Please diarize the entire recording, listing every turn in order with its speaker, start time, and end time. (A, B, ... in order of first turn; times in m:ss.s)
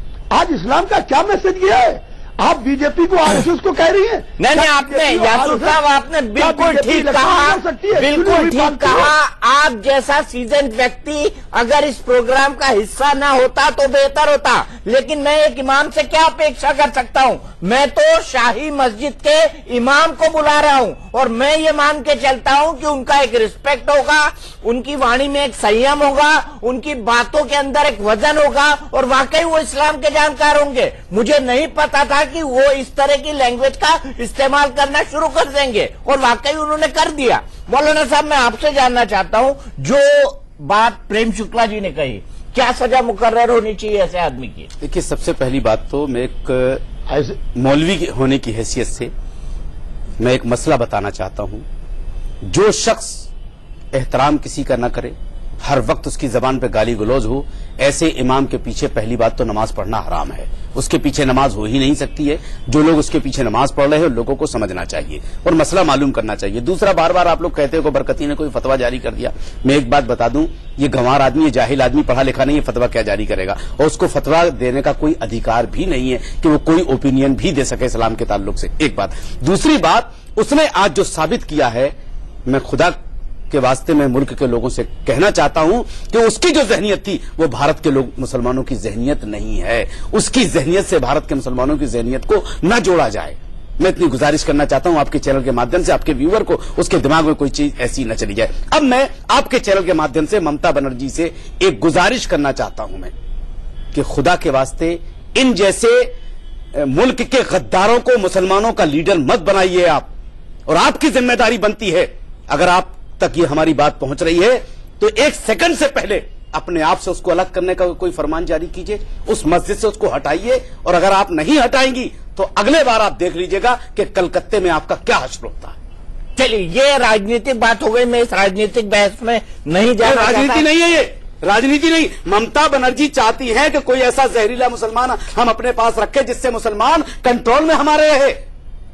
0:00.3-0:05.8 A
0:04.4-0:44.7 B
0:06.4-0:09.1 A
0:44.8-0:46.8 C
0:47.1-0:47.4 A
0:47.5-0:49.1 C
0:50.2-0:51.6 C
0:52.4-0:53.3 C
0:53.9-1:21.9 C
1:22.4-1:23.0 C
1:23.5-1:43.1 C
1:43.9-1:46.1 C
1:46.7-1:50.1 C
1:50.7-2:05.8 C
2:06.4-2:10.6 B
2:10.0-2:18.4 C